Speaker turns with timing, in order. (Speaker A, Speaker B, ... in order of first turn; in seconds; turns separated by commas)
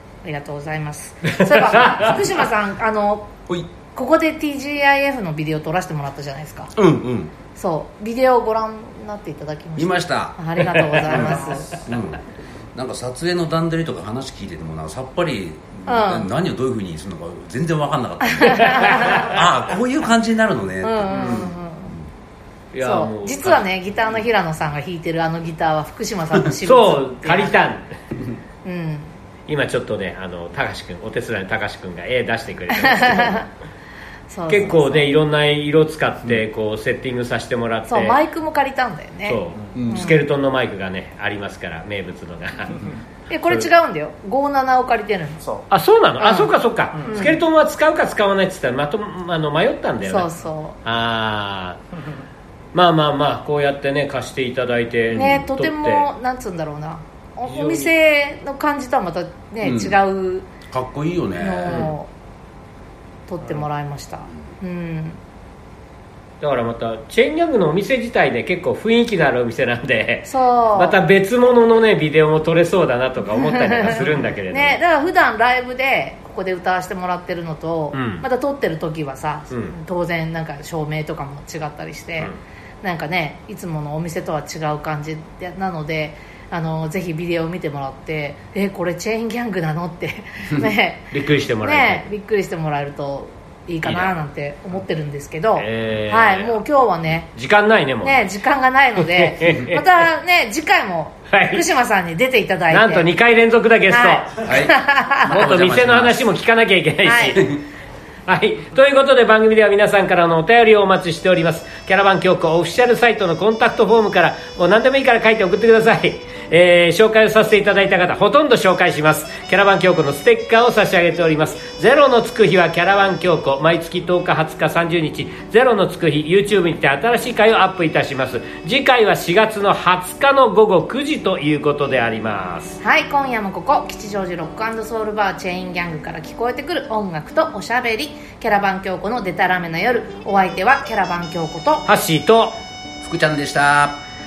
Speaker A: 0.2-3.3, Speaker B: 1.6-2.1, Speaker A: 3.9-6.7, Speaker C: 6.7-7.3, Speaker A: 7.5-11.8, Speaker C: 9.8-22.0, Speaker B: 11.1-11.6, Speaker A: 15.8-16.3, Speaker A: 18.2-19.3, Speaker B: 18.6-19.4, Speaker A: 20.8-21.9, Speaker B: 21.1-21.5, Speaker B: 22.7-23.6, Speaker A: 22.8-27.6, Speaker B: 26.6-27.9, Speaker A: 28.6-29.1, Speaker B: 29.5-33.4, Speaker A: 32.7-33.5, Speaker A: 34.3-35.1, Speaker B: 34.5-38.2, Speaker A: 37.9-40.2, Speaker B: 39.2-42.9, Speaker C: 39.7-40.2, Speaker A: 43.3-45.5, Speaker B: 45.7-50.3, Speaker A: 46.2-47.4, Speaker A: 50.0-50.8, Speaker B: 50.8-51.8, Speaker B: 52.7-56.1, Speaker C: 55.1-55.4, Speaker A: 55.1-60.5, Speaker B: 57.5-57.9, Speaker C: 59.6-60.0, Speaker C: 60.7-61.9, Speaker A: 61.4-62.1, Speaker B: 61.6-61.9, Speaker A: 63.3-65.2, Speaker B: 66.4-74.8, Speaker A: 70.3-71.0, Speaker A: 73.3-97.3, Speaker B: 77.9-78.2, Speaker B: 91.1-92.1, Speaker B: 93.8-94.2, Speaker B: 95.6-96.6, Speaker B: 97.3-98.2, Speaker A: 98.0-103.1, Speaker B: 99.1-99.8, Speaker B: 101.3-101.7, Speaker B: 102.7-104.4, Speaker A: 103.9-105.3, Speaker C: 104.4-106.2, Speaker B: 105.3-107.6, Speaker A: 107.0-107.4, Speaker B: 108.2-132.8, Speaker A: 132.8-141.8, Speaker B: 141.9-142.5, Speaker C: 143.0-144.0